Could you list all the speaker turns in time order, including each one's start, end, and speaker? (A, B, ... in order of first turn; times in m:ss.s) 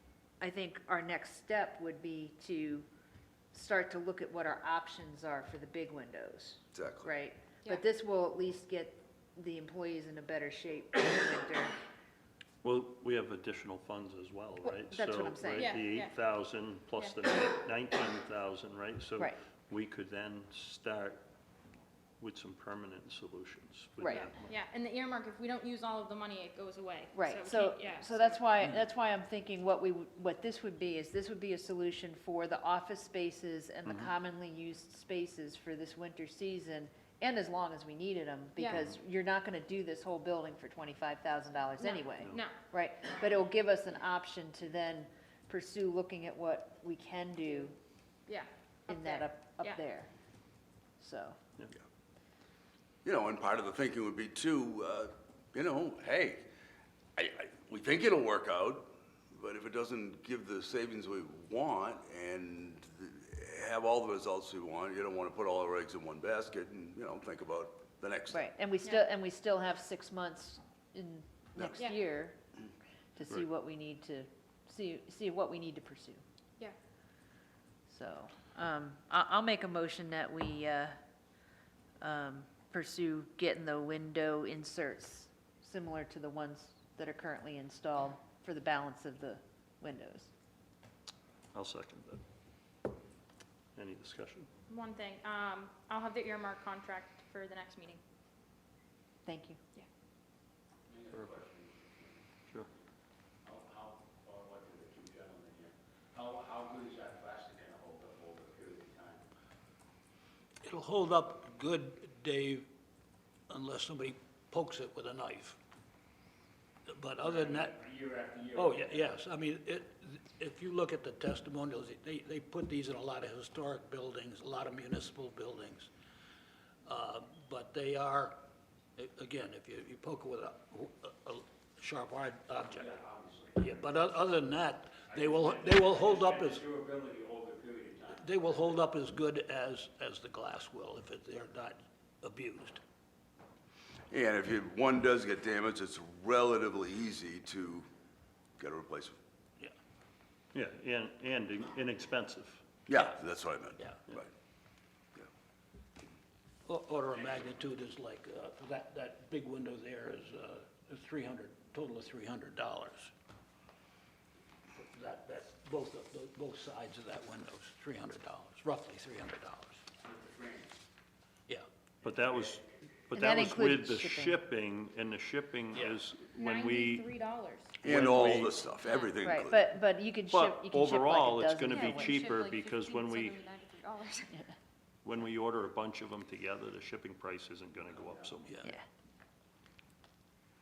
0:00.4-0:02.8 A
0:03.5-0:11.7 A
0:06.7-0:07.1 B
0:12.6-0:21.2 C
0:14.6-0:15.8 A
0:15.6-0:16.1 D
0:22.2-0:24.5 C
0:24.0-0:24.3 A
0:24.0-0:28.4 D
0:27.1-0:47.7 A
0:33.8-0:34.1 C
0:38.6-0:38.8 D
0:41.8-0:42.6 D
0:48.3-0:49.8 D
0:48.9-0:50.1 A
0:51.0-0:51.4 A
0:53.0-0:56.5 B
0:57.2-1:08.5 B
1:08.3-1:12.4 A
1:11.6-1:11.8 B
1:13.1-1:16.2 A
1:17.9-1:21.0 A
1:22.0-1:30.3 A
1:31.5-1:32.2 C
1:33.8-1:34.5 C
1:34.7-1:38.0 D
1:39.2-1:39.6 A
1:40.9-1:42.2 E
1:43.4-1:49.2 E
1:50.6-1:52.7 F
1:53.5-1:55.6 F
1:56.9-1:57.9 F
1:57.2-1:59.2 E
1:58.5-2:05.9 F
2:06.8-2:08.4 F
2:09.0-2:13.0 F
2:12.6-2:14.3 E
2:13.6-2:16.7 F
2:15.0-2:18.8 E
2:18.1-2:22.8 F
2:24.1-2:27.9 B
2:28.6-2:29.2 B
2:30.5-2:32.6 C
2:32.9-2:34.3 B
2:32.9-2:33.2 F
2:33.8-2:34.0 F
2:36.6-2:43.1 F
2:44.7-2:49.9 F
2:50.1-2:50.7 E
2:52.0-2:52.5 C
2:52.3-2:52.6 E
2:53.1-2:57.0 C
2:53.1-2:54.4 A
2:56.3-2:57.8 D
2:57.8-2:58.6 C
2:57.8-2:59.6 B
2:58.8-2:59.1 D
2:59.2-3:02.2 A
3:00.3-3:03.4 C
3:01.7-3:04.4 D
3:05.0-3:08.6 C
3:08.5-3:08.7 F